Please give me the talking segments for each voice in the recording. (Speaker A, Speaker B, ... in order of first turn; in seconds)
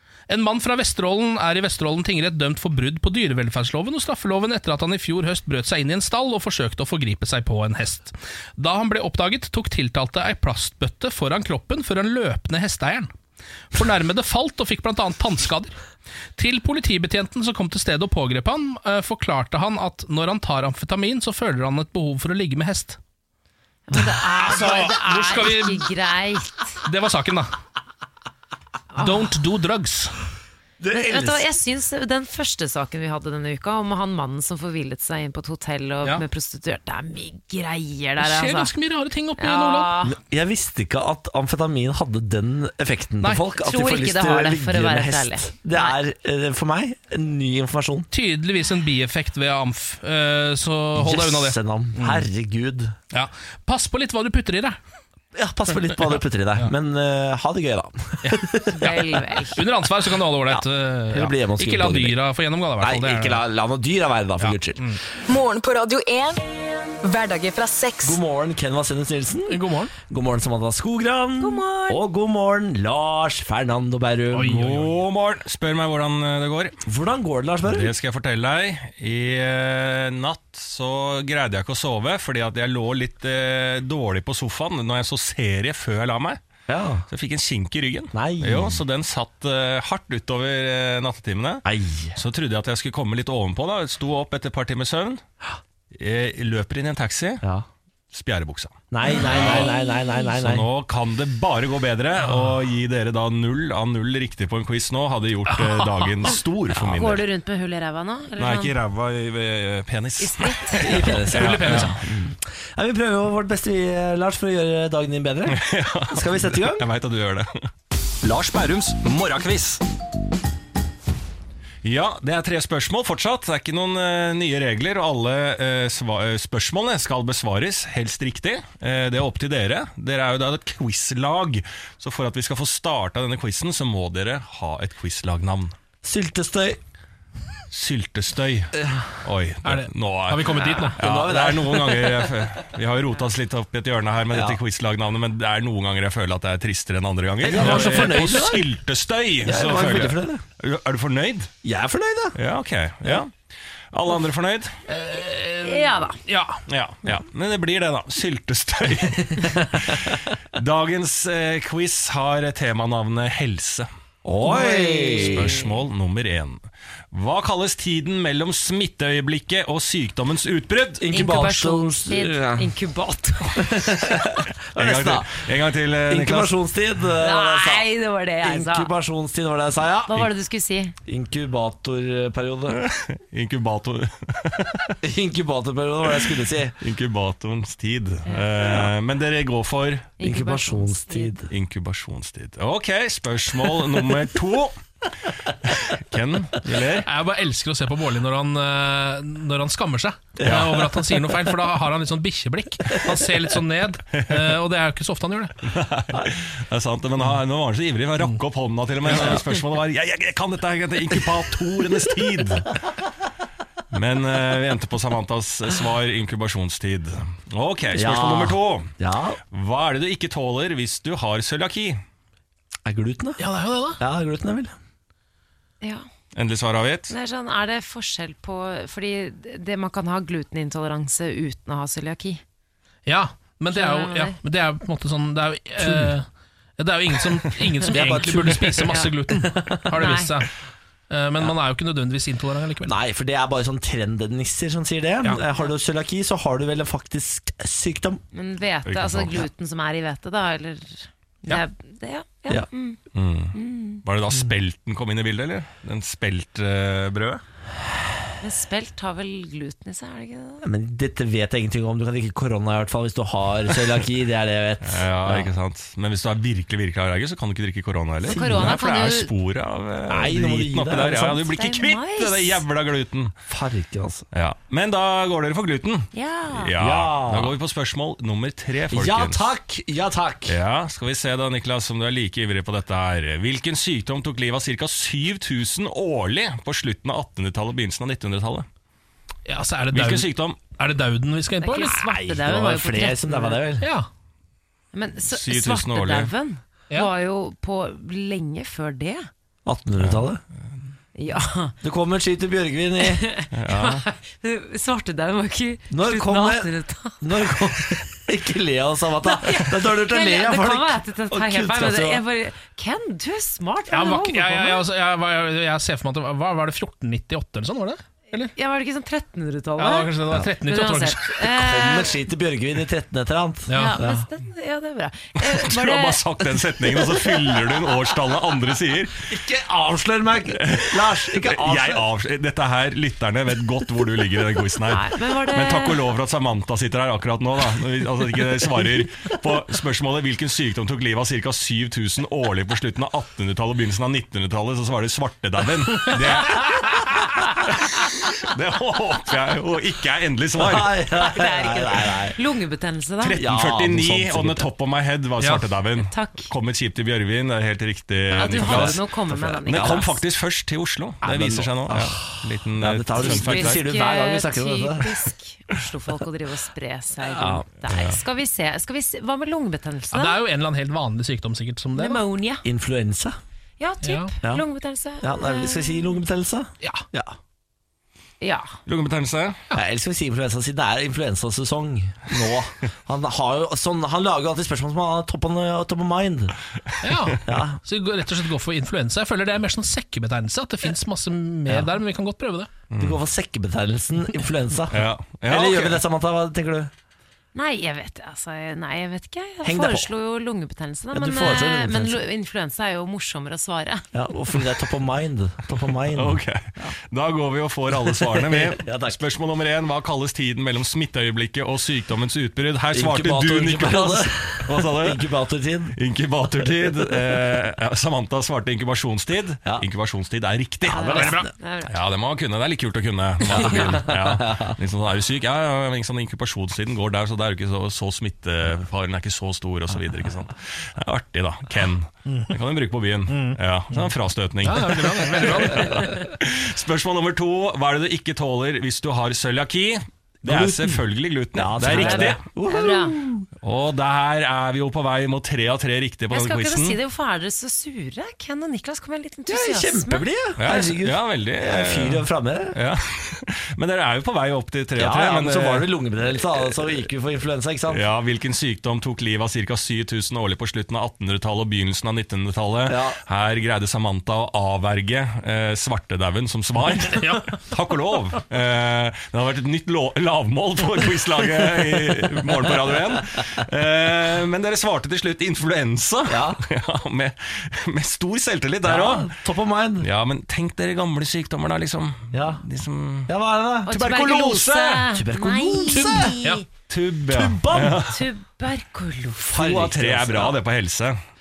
Speaker A: 0.3-13.1, 13.7-15.7, 16.4-23.0, 24.1-25.9, 26.8-27.5, 29.0-30.1, 38.2-39.9, 48.1-52.3, 53.1-54.8, 55.9-56.7, 58.2-59.0, 59.5-63.4, 64.4-65.0, 69.5-69.9, 74.3-74.9, 105.6-106.1, 111.3-112.0, 139.6-141.0, 147.6-148.5, 154.9-156.6, 197.0-205.5, 223.4-224.0, 233.1-236.2, 236.8-240.5, 241.1-242.9, 289.5-292.1, 293.8-294.1, 313.9-318.5, 319.8-321.3, 323.7-324.0, 370.1-372.2, 374.0-374.3, 387.0-392.7, 421.2-421.5, 434.6-436.2, 485.9-486.6
Speaker B: 23.9-26.8, 28.9-29.3, 30.9-38.7, 39.4-40.2, 43.5-45.9, 58.7-59.6, 71.4-71.9, 99.3-100.3, 106.9-108.7, 110.2-111.0, 155.6-156.2, 164.4-165.7, 171.1-173.8, 177.2-178.9, 180.1-180.9, 190.2-191.3, 227.1-232.4, 233.7-234.4, 240.0-240.3, 248.3-253.0, 253.5-254.0, 258.4-260.6, 268.2-269.3, 271.4-272.6, 276.1-276.7, 291.6-293.6, 294.9-299.3, 301.1-301.8, 303.0-307.5, 309.2-314.8, 318.4-322.1, 323.7-326.2, 334.9-336.0, 351.1-353.4, 356.0-356.5, 358.3-360.2, 363.2-370.4, 371.9-372.6, 373.8-376.2, 378.4-378.8, 397.5-404.1, 420.9-422.0, 423.5-424.0, 441.8-443.1, 446.3-450.3, 483.9-486.6, 488.1-489.5
Speaker C: 30.8-31.5, 40.0-48.1, 51.0-53.0, 55.3-58.9, 60.5-62.2, 62.8-64.8, 68.0-74.7, 76.8-77.9, 86.7-87.0, 88.1-88.8, 91.6-92.1, 98.9-100.7, 110.8-116.9, 136.0-136.8, 138.8-139.0, 140.8-142.3, 144.3-144.6, 147.4-148.7, 149.4-150.4, 151.6-152.3, 164.2-165.6, 171.0-172.7, 173.6-175.4, 176.0-177.9, 178.4-180.3, 181.1-182.8, 185.0-186.7, 190.2-191.5, 200.4-201.4, 209.1-209.4, 217.9-219.4, 222.8-223.4, 224.0-224.7, 235.8-236.2, 237.9-239.8, 242.8-248.2, 260.6-265.5, 268.2-268.8, 270.1-271.4, 273.5-274.2, 276.8-277.6, 278.9-280.6, 292.1-293.9, 299.6-300.4, 301.8-303.2, 305.9-306.7, 307.2-312.2, 321.4-324.2, 329.3-332.0, 350.6-352.4, 353.4-354.7, 358.4-360.1, 361.2-365.2, 367.2-367.6, 372.6-373.4, 375.2-377.4, 379.7-386.5, 387.4-387.8, 391.7-391.9, 393.0-396.9, 399.6-400.1, 401.1-402.2, 404.1-406.9, 407.9-409.2, 412.9-415.9, 416.8-417.2, 423.5-424.7, 440.4-443.5, 449.5-452.7, 454.9-458.0, 462.9-463.2, 472.5-472.9, 476.3-476.6, 478.8-480.1, 482.3-482.6, 483.3-484.2, 485.1-486.4, 487.3-488.1, 489.4-490.6
Speaker D: 65.3-66.4, 67.0-68.2
Speaker E: 74.6-76.7, 77.6-86.4, 87.1-91.6, 92.1-95.2, 95.9-97.4, 98.1-99.7, 100.3-107.2, 108.4-111.9, 115.5-117.6, 118.2-119.8, 121.8-135.7, 137.7-151.5, 152.3-153.3, 153.9-154.7, 156.7-163.9, 165.2-171.1, 174.8-176.5, 182.7-184.9, 186.8-190.1, 191.5-194.8, 195.7-197.1, 200.4-200.8, 205.7-212.7, 213.9-218.9, 219.5-222.0, 226.3-227.1, 248.8-249.4, 253.1-257.4, 264.8-273.3, 274.3-279.5, 280.5-288.6, 289.9-290.6, 295.3-296.3, 303.5-304.0, 325.4-329.2, 330.6-347.1, 347.7-351.0, 353.2-363.8, 367.9-368.2, 378.9-379.6, 392.9-393.2, 394.9-396.0, 406.1-415.2, 415.9-421.4, 421.9-442.4, 443.6-447.0, 450.6-457.0, 457.9-479.3, 480.0-483.3, 483.9-485.0, 486.9-488.2, 489.5-491.2